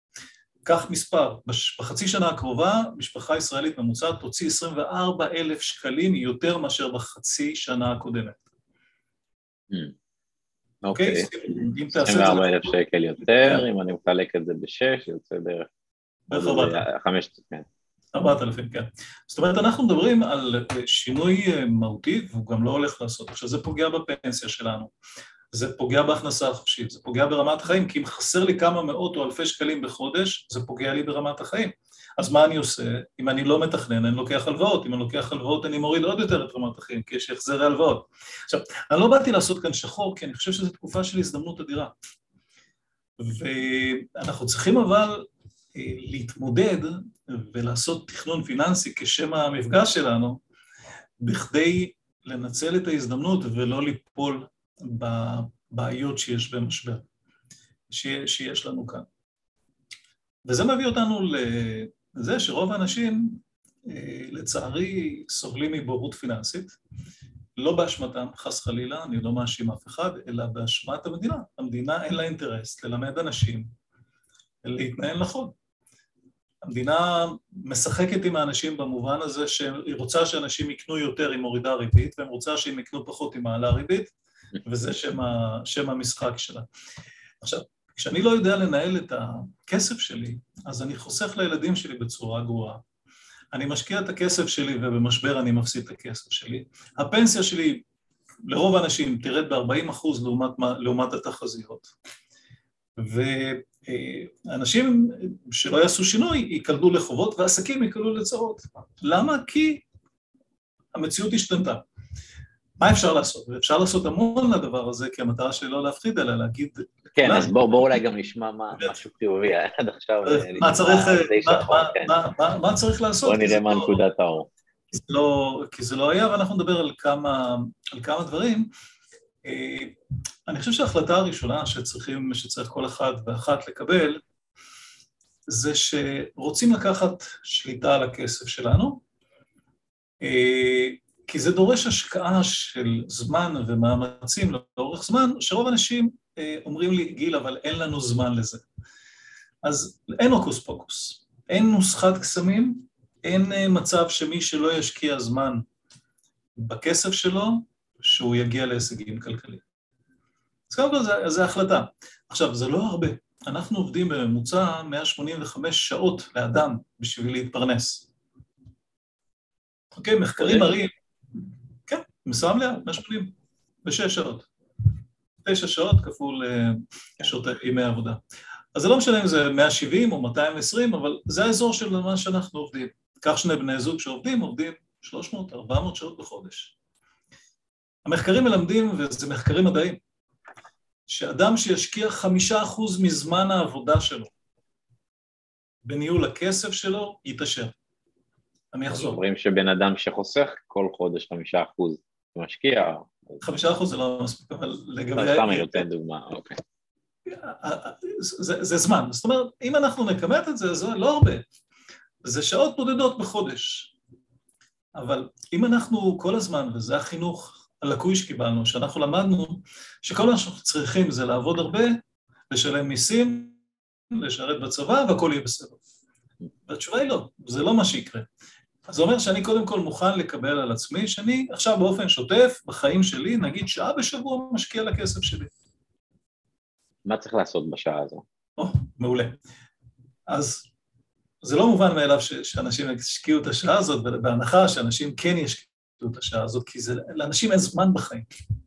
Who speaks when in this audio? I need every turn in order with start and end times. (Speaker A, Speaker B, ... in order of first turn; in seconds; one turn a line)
Speaker A: 0.6-8.4
Speaker B: 10.8-15.7
Speaker A: 10.9-12.6
Speaker A: 16.3-16.8
Speaker B: 16.3-17.7
Speaker A: 18.1-24.9
Speaker A: 25.5-41.9
Speaker A: 43.2-50.4
Speaker A: 51.2-57.0
Speaker A: 57.9-59.0
Speaker A: 60.4-66.8
Speaker A: 67.6-73.7
Speaker A: 74.6-75.5
Speaker A: 76.6-84.1
Speaker A: 84.6-86.7
Speaker A: 87.4-92.8
Speaker A: 93.5-97.8
Speaker A: 98.4-101.9
Speaker A: 103.0-109.8
Speaker A: 110.9-111.8
Speaker A: 112.8-117.5
Speaker B: 117.2-122.2
Speaker A: 120.2-124.0
Speaker B: 123.2-124.5
Speaker A: 124.9-128.7
Speaker A: 129.4-129.9
Speaker A: 130.5-134.2
Speaker A: 135.5-139.0
Speaker A: 140.2-148.6
Speaker A: 149.6-155.6
Speaker A: 156.6-159.6
Speaker A: 160.7-168.1
Speaker A: 169.9-170.9
Speaker B: 170.4-170.7
Speaker A: 171.9-174.5
Speaker A: 175.4-178.2
Speaker A: 178.7-186.7
Speaker A: 188.0-190.0
Speaker A: 191.1-194.3
Speaker A: 195.8-197.7
Speaker A: 198.7-199.2
Speaker B: 198.9-203.4
Speaker A: 203.4-205.8
Speaker B: 205.2-206.6
Speaker A: 207.2-211.4
Speaker A: 212.2-213.9
Speaker A: 214.9-222.0
Speaker A: 222.5-223.6
Speaker A: 224.1-225.8
Speaker A: 226.7-228.3
Speaker A: 228.8-235.5
Speaker B: 237.1-238.2
Speaker A: 238.6-239.4
Speaker A: 240.3-240.7
Speaker A: 241.4-248.3